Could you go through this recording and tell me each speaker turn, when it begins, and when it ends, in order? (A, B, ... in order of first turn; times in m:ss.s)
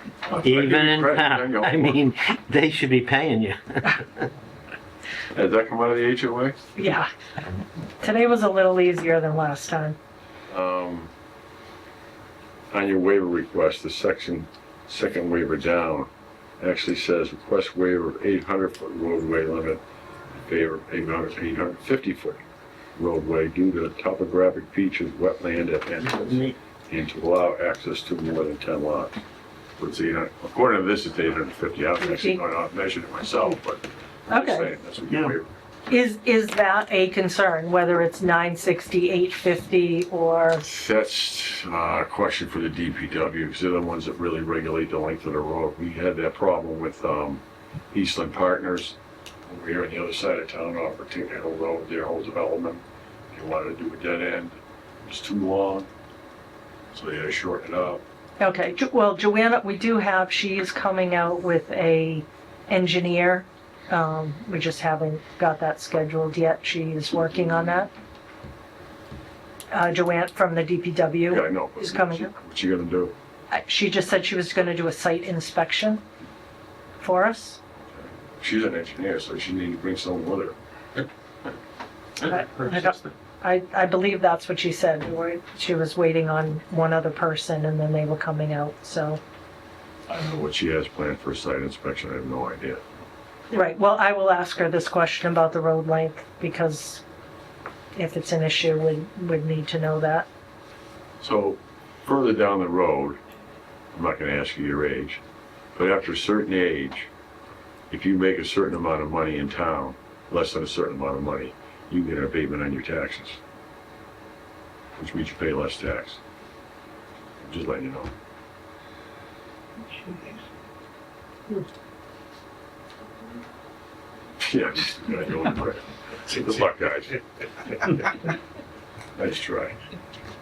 0:00.2-0:02.1 A
0:00.4-0:03.6 B
0:05.3-0:06.6 A
0:06.8-0:07.1 C
0:08.0-0:10.0 C
0:10.5-0:11.1 A
0:12.7-0:16.1 A
0:16.6-0:19.8 A
0:20.4-0:22.4 A
0:23.0-0:29.2 A
0:29.8-0:35.5 A
0:32.0-0:32.4 C
0:34.3-0:34.7 C
0:35.9-0:40.6 C
0:40.6-0:55.9 A
0:56.9-0:58.0 A
0:58.4-1:07.9 C
1:09.7-1:12.3 C
1:11.3-1:13.1 A
1:13.5-1:16.0 C
1:17.0-1:17.6 C
1:17.9-1:20.6 A
1:22.2-1:23.1 A
1:22.2-1:29.2 C
1:30.1-1:32.8 A
1:33.5-1:37.0 C
1:37.9-1:40.3 C
1:41.2-1:43.2 A
1:43.9-1:45.2 A
1:45.8-1:47.1 A
1:47.9-1:53.4 A
1:55.0-1:56.2 A
1:57.4-1:58.1 A
2:04.4-2:08.2 A
2:09.2-2:09.8 A